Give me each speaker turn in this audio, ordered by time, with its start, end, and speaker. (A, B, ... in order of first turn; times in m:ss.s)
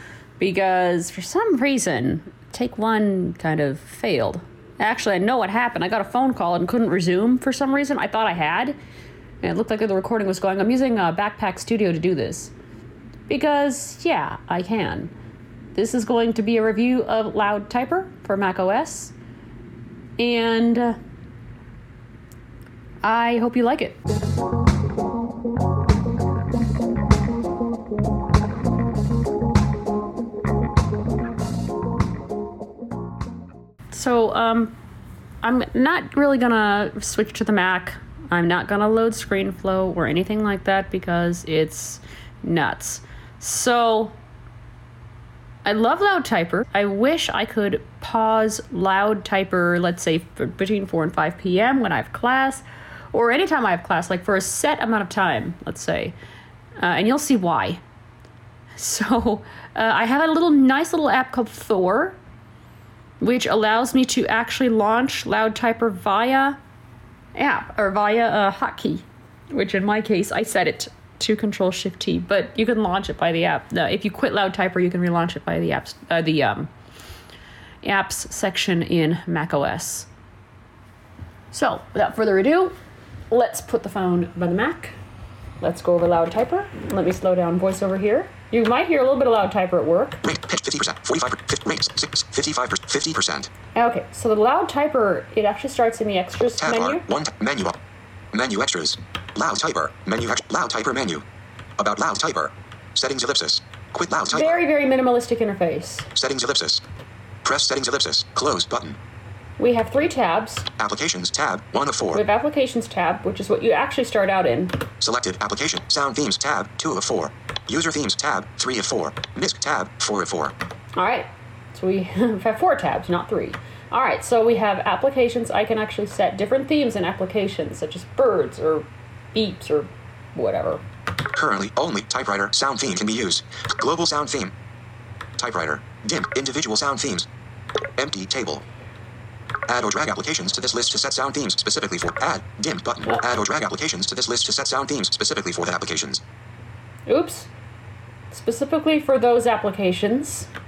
0:00.4-0:08.8 A
0:09.4-0:12.5 A
0:13.3-0:15.1 A
0:15.7-0:19.1 A
0:20.2-0:21.0 A
0:23.0-0:24.0 A
0:33.9-0:34.7 A
0:35.4-0:44.2 A
0:45.6-0:56.2 A
0:56.8-0:57.8 A
0:58.8-1:02.2 A
1:03.2-1:06.6 A
1:07.3-1:16.7 A
1:17.8-1:20.1 A
1:21.5-1:22.7 A
1:23.3-1:25.0 A
1:25.6-1:30.2 A
1:30.2-1:33.5 B
1:33.7-1:37.0 A
1:36.6-1:37.8 B
1:38.3-1:41.2 B
1:41.8-1:44.6 B
1:44.3-1:46.1 A
1:46.1-1:46.8 B
1:47.4-1:49.0 B
1:49.6-1:50.7 A
1:50.8-1:52.2 B
1:52.1-1:54.8 A
1:55.0-2:00.5 B
2:01.0-2:10.8 A
2:11.3-2:14.5 B
2:15.4-2:17.3 B
2:18.0-2:18.6 B
2:19.7-2:26.2 B
2:27.1-2:27.5 A
2:28.3-2:30.5 A